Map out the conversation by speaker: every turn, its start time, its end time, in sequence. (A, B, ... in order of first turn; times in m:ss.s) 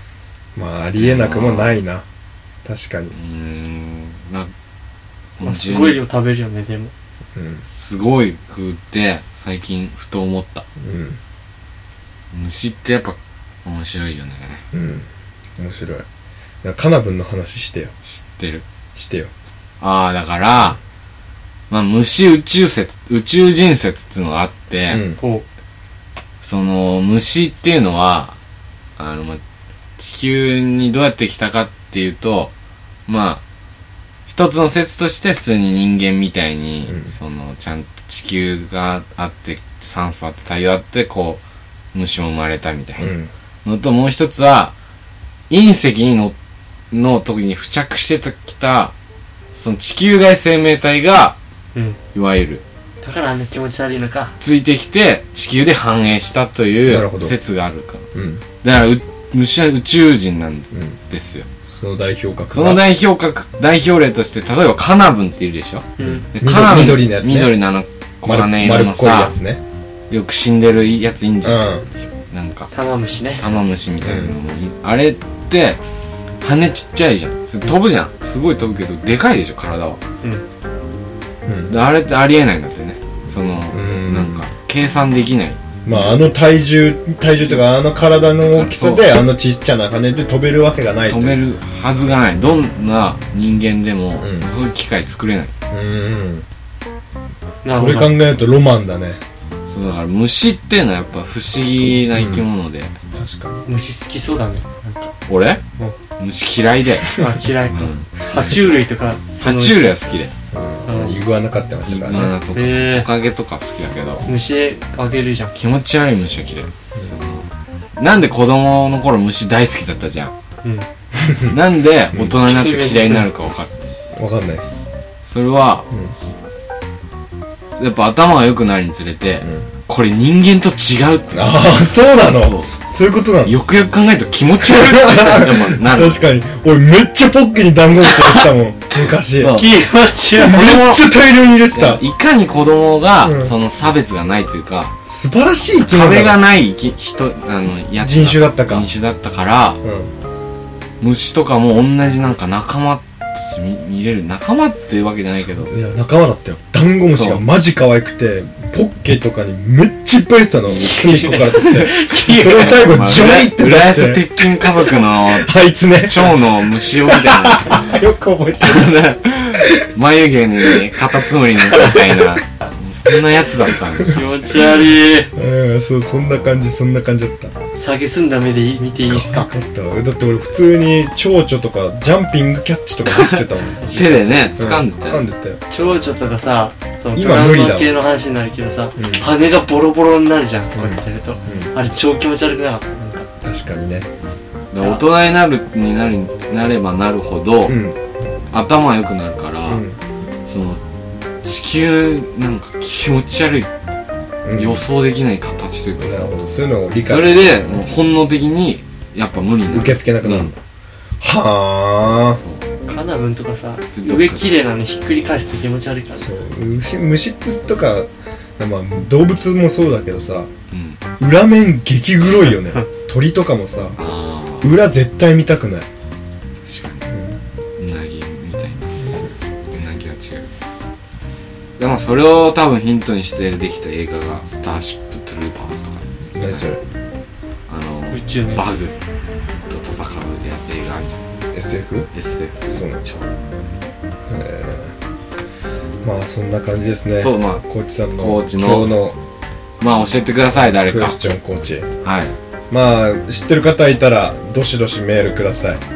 0:00.6-0:02.0 A
0:01.0-0:01.8 B
0:02.6-0:03.2 A
0:03.1-0:04.5 B
0:05.4-0:06.0 B
0:05.4-0:06.9 C
0:07.4-0:07.6 A
0:07.8-0:10.6 B
0:10.8-0:11.2 A
0:12.3-0:14.6 B
0:14.7-0:15.1 A
0:15.6-0:16.0 A
0:16.6-0:17.9 A
0:18.1-0:18.6 B
0:19.0-0:19.3 A
0:19.8-0:20.8 B
0:21.7-0:25.0 B
0:24.9-0:25.2 A
0:25.2-0:25.4 C
0:26.4-0:28.4 B
0:29.0-0:29.4 B
0:30.0-0:32.5 B
0:33.1-0:33.4 B
0:34.3-0:41.4 B
0:41.9-0:43.1 B
0:43.0-0:43.3 A
0:43.6-0:44.7 B
0:45.5-0:46.4 B
0:46.9-0:48.9 B
0:49.6-0:51.4 B
0:52.1-0:52.6 B
0:53.0-0:54.4 C
0:54.4-0:58.0 B
0:56.9-0:57.4 A
0:58.1-0:58.4 A
0:58.6-1:01.5 B
1:01.7-1:02.9 A
1:02.5-1:09.3 B
1:06.0-1:06.3 C
1:06.0-1:07.6 A
1:08.2-1:09.6 A
1:10.1-1:12.7 B
1:11.4-1:11.9 A
1:12.7-1:13.5 C
1:13.4-1:15.8 B
1:14.0-1:14.4 A
1:16.4-1:20.0 B
1:21.5-1:21.7 A
1:21.7-1:26.1 B
1:23.7-1:24.4 A
1:25.8-1:31.4 A
1:28.4-1:29.1 B
1:31.1-1:35.5 B
1:34.2-1:34.5 A
1:35.7-1:36.4 A
1:37.6-1:38.2 C
1:37.7-1:39.2 A
1:39.7-1:42.9 B
1:42.1-1:42.5 A
1:43.1-1:43.6 A
1:43.7-1:45.1 C
1:45.3-1:45.6 B
1:46.2-1:48.7 B
1:47.2-1:50.0 C
1:49.4-1:50.3 B
1:50.5-1:52.4 A
1:50.9-1:51.1 C
1:51.9-1:54.3 B
1:52.5-1:53.1 C
1:54.2-1:55.5 C
1:55.5-2:00.3 B
2:01.2-2:01.6 A
2:01.5-2:03.9 B
2:02.4-2:03.3 C
2:04.2-2:04.8 A
2:05.3-2:05.9 B
2:07.8-2:12.7 B
2:09.4-2:09.7 A
2:11.3-2:13.6 A
2:13.4-2:16.2 B
2:14.6-2:19.6 A
2:19.4-2:19.7 B
2:19.5-2:20.7 C
2:20.3-2:22.0 A
2:20.4-2:21.1 B
2:21.7-2:25.0 B
2:23.2-2:23.6 A
2:25.1-2:26.4 A
2:25.8-2:29.8 B
2:28.0-2:28.9 A
2:29.8-2:30.1 A
2:31.0-2:35.7 B
2:35.4-2:49.0 A
2:37.1-2:37.4 B
2:40.7-2:48.0 B
2:48.6-2:54.8 B
2:49.6-2:49.9 A
2:51.6-2:52.4 A
2:54.0-2:55.3 C
2:55.3-2:57.5 A
2:57.8-2:59.5 C
2:59.1-3:05.6 A
3:03.8-3:05.2 B
3:05.7-3:13.3 C
3:07.2-3:07.9 A
3:09.0-3:09.2 A
3:10.8-3:11.7 A
3:13.4-3:14.1 A
3:14.7-3:17.8 B
3:17.7-3:18.0 A
3:18.5-3:19.8 B
3:19.7-3:20.0 A
3:20.5-3:20.8 B
3:21.4-3:23.7 B
3:24.5-3:24.8 A
3:24.5-3:26.3 B
3:26.0-3:27.6 A
3:27.0-3:30.6 B
3:29.7-3:30.6 A
3:31.2-3:32.4 A
3:32.9-3:36.3 C
3:33.9-3:34.5 B
3:36.2-3:40.5 A
3:40.7-3:41.0 B
3:41.2-3:44.0 A
3:44.0-3:44.7 B
3:44.6-3:45.9 A
3:46.7-3:47.1 B
3:47.1-3:47.4 A
3:47.8-3:49.0 B
3:49.7-3:50.5 B
3:51.8-3:56.8 B
3:56.4-3:56.8 A
3:57.7-3:59.0 B
3:58.1-3:58.7 C
3:59.7-4:01.2 B
4:01.5-4:02.1 A
4:02.1-4:03.3 B
4:02.7-4:03.0 A
4:04.3-4:04.9 A
4:06.0-4:09.2 A
4:07.1-4:07.7 B
4:08.2-4:09.0 B
4:09.8-4:11.2 B
4:10.6-4:11.9 A
4:12.0-4:12.4 B
4:12.7-4:15.8 A